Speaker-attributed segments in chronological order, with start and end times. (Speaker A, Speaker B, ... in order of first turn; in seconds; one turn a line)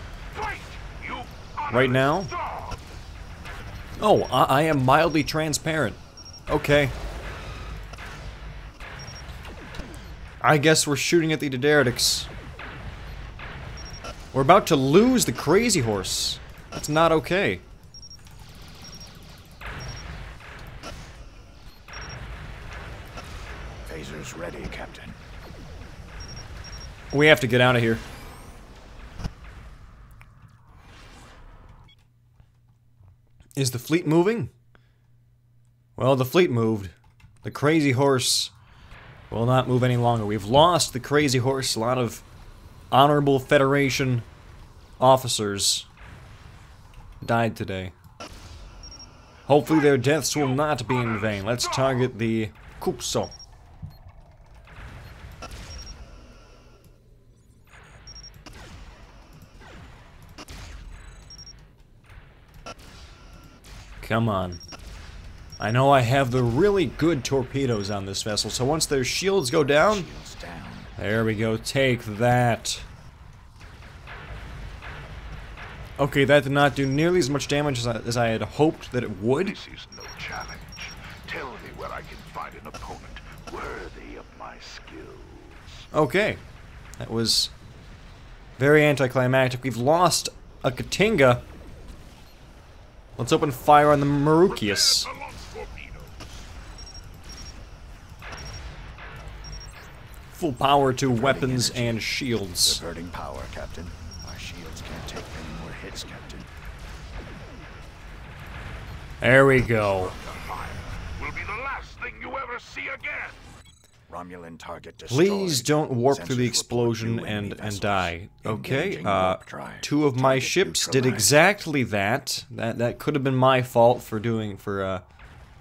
Speaker A: 0.4-1.3
Speaker B: 1.7-2.3
Speaker B: 4.0-6.9
Speaker B: 10.4-12.3
Speaker B: 14.3-17.6
Speaker C: 23.9-25.2
Speaker B: 27.1-28.0
Speaker B: 33.6-34.5
Speaker B: 36.0-38.5
Speaker B: 39.3-42.2
Speaker B: 42.9-44.2
Speaker B: 45.0-45.9
Speaker B: 47.2-47.9
Speaker B: 49.5-53.3
Speaker B: 64.0-64.6
Speaker B: 65.6-70.1
Speaker C: 69.6-70.9
Speaker B: 71.0-72.8
Speaker B: 76.0-79.6
Speaker A: 79.6-85.5
Speaker B: 85.9-86.4
Speaker B: 87.0-87.5
Speaker B: 88.6-91.4
Speaker B: 93.2-95.1
Speaker A: 95.0-96.2
Speaker B: 100.3-102.8
Speaker C: 101.1-102.0
Speaker C: 102.6-106.5
Speaker B: 109.2-110.1
Speaker C: 109.9-110.9
Speaker A: 111.2-113.4
Speaker C: 114.1-121.4
Speaker B: 115.1-125.0